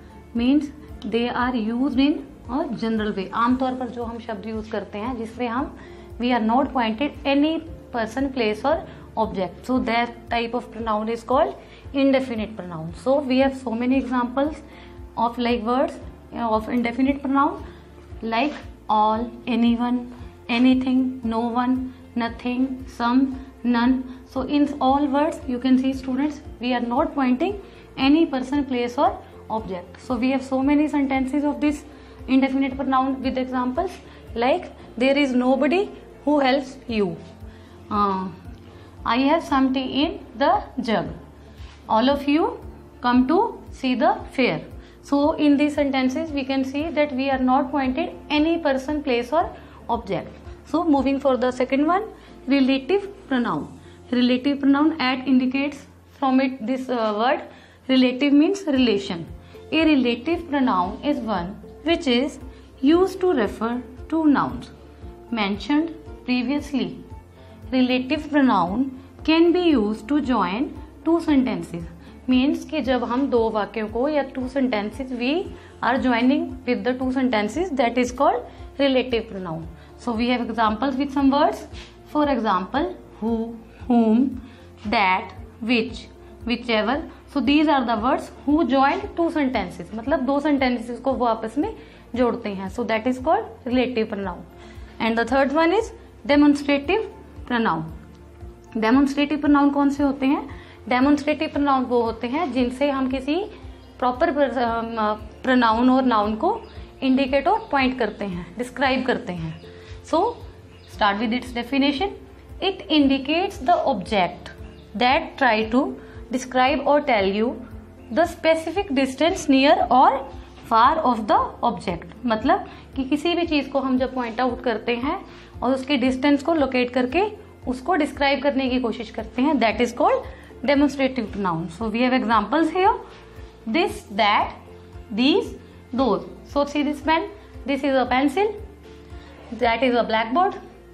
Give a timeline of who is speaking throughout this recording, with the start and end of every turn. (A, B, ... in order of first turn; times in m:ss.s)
0:00.3-0:14.6 A
0:15.2-0:17.6 A
0:18.2-0:37.2 A
0:37.9-0:38.4 A
0:39.0-0:41.2 A
0:41.9-1:04.7 A
1:05.3-1:07.0 A
1:07.7-1:34.5 A
1:35.0-1:37.9 A
1:38.8-1:57.6 A
1:58.1-2:13.0 A
2:13.7-2:14.6 A
2:15.1-2:18.6 A
2:19.5-2:20.6 A